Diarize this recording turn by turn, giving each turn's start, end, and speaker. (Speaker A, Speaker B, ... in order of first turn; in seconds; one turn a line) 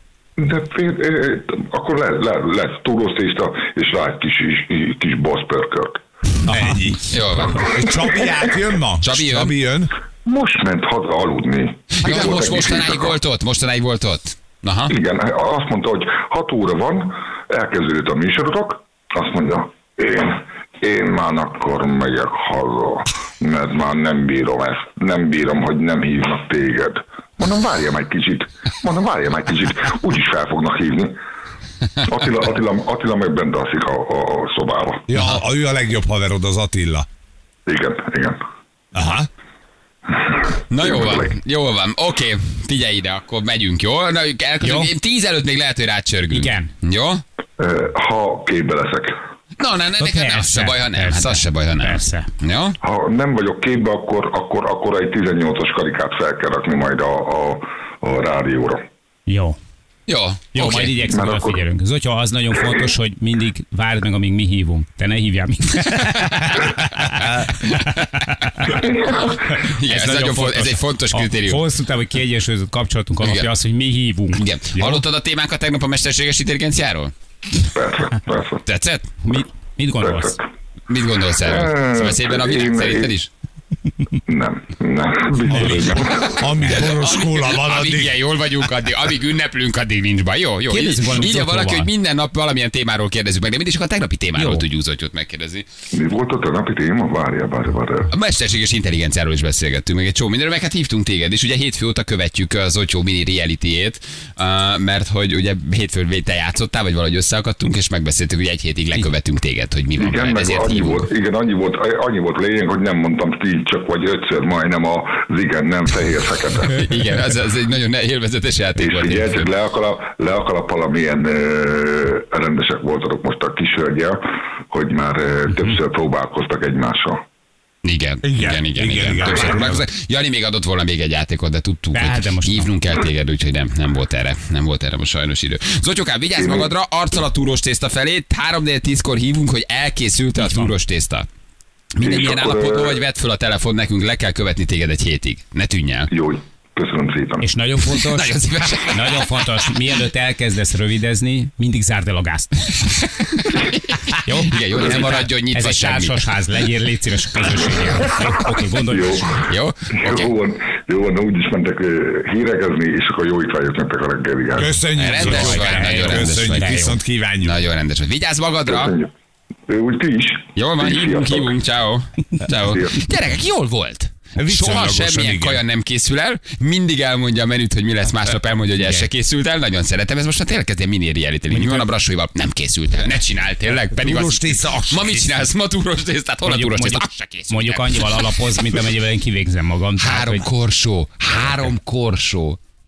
Speaker A: 0.4-6.0
Speaker B: 6.5-9.9
Speaker C: 6.5-6.8
Speaker D: 7.1-8.1
Speaker A: 7.7-8.3
Speaker D: 9.0-9.5
Speaker A: 10.2-13.2
Speaker D: 11.9-14.9
Speaker A: 14.9-31.2
Speaker A: 32.0-35.0
Speaker B: 35.1-37.1
Speaker A: 37.6-38.4
Speaker B: 38.9-39.3
Speaker A: 40.1-41.3
Speaker D: 40.7-47.2
Speaker C: 44.6-44.9
Speaker C: 46.3-46.7
Speaker A: 47.6-49.1
Speaker D: 49.6-52.8
Speaker C: 50.0-52.3
Speaker A: 52.8-58.8
Speaker C: 59.3-59.6
Speaker D: 60.1-61.0
Speaker C: 60.5-75.0
Speaker A: 61.0-61.6
Speaker D: 66.0-66.5
Speaker D: 67.5-71.6
Speaker D: 73.2-73.5
Speaker D: 74.3-77.1
Speaker A: 77.6-78.6
Speaker D: 78.6-79.1
Speaker C: 79.2-80.4
Speaker A: 80.0-80.4
Speaker D: 80.9-83.3
Speaker A: 81.4-83.1
Speaker A: 84.3-86.4
Speaker B: 85.5-88.2
Speaker D: 86.2-95.7
Speaker C: 86.6-86.9
Speaker C: 90.7-91.9
Speaker C: 94.3-94.6
Speaker A: 95.9-98.1
Speaker D: 98.1-111.1
Speaker A: 110.0-116.8
Speaker D: 116.7-119.5
Speaker A: 118.8-127.2
Speaker D: 127.8-141.3
Speaker B: 128.2-129.8
Speaker C: 131.9-132.7
Speaker A: 136.3-136.7
Speaker D: 141.9-146.1
Speaker A: 142.0-143.0
Speaker A: 146.1-147.5
Speaker C: 147.4-153.0
Speaker D: 147.9-149.8
Speaker D: 152.9-156.2
Speaker C: 154.2-159.2
Speaker A: 158.8-164.8
Speaker D: 159.3-160.3
Speaker B: 164.5-167.6
Speaker D: 164.9-166.7
Speaker C: 165.2-167.0
Speaker D: 167.4-168.9
Speaker A: 168.7-169.1
Speaker A: 169.7-171.5
Speaker D: 170.5-188.8
Speaker A: 172.7-173.0
Speaker B: 174.4-175.6
Speaker C: 181.5-181.9
Speaker B: 183.9-185.5
Speaker C: 186.4-190.4
Speaker D: 190.0-192.6